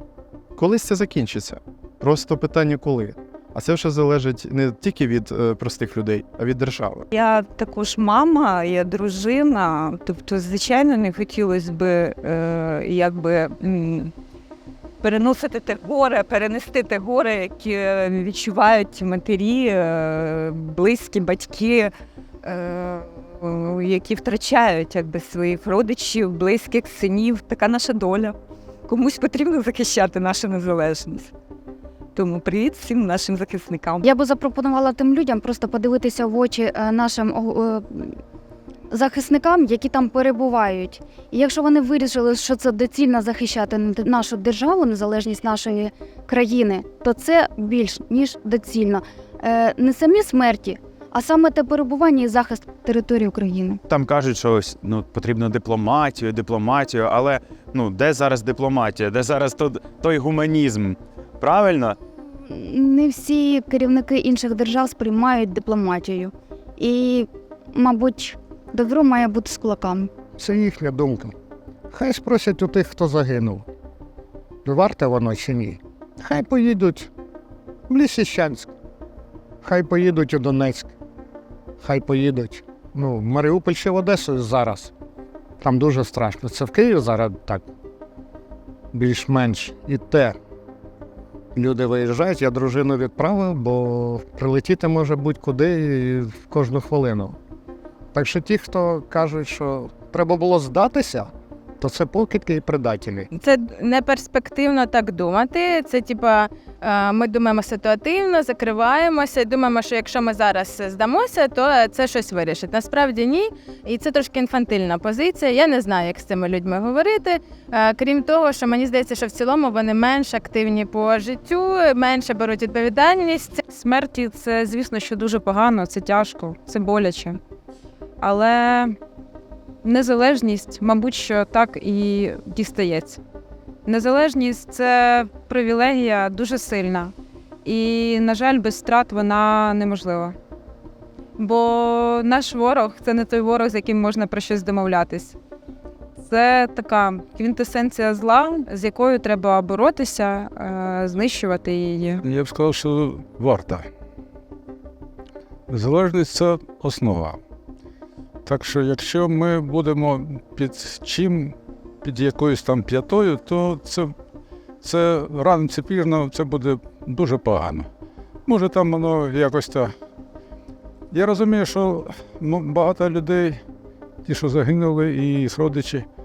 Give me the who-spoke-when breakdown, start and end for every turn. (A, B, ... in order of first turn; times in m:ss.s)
0:00.6-0:07.1 A
0:07.1-0:14.1 B
0:15.0-0:28.4 B
0:28.9-0:31.3 B
0:32.2-0:34.1 B
0:34.0-0:38.2 C
0:38.9-0:53.8 C
0:53.9-1:02.0 D
1:02.5-1:10.1 C
1:10.4-1:11.4 E
1:11.9-1:13.7 E
1:14.6-1:17.1 E
1:17.9-1:18.7 E
1:19.6-1:20.9 E
1:21.8-1:24.9 E
1:25.6-1:27.6 E
1:28.9-1:30.4 E
1:31.6-1:37.4 E
1:38.1-1:43.3 E
1:43.4-2:03.6 F
2:03.7-2:07.4 G
2:08.2-2:09.0 G
2:09.8-2:13.2 G
2:13.9-2:17.1 G
2:17.6-2:20.4 G
2:21.4-2:25.4 G
2:26.2-2:32.2 G
2:32.2-2:33.8 H
2:35.7-2:37.4 H
2:38.4-2:44.1 H
2:44.8-2:47.9 H
2:48.5-2:49.9 H
2:51.1-2:53.6 H
2:54.2-2:56.0 H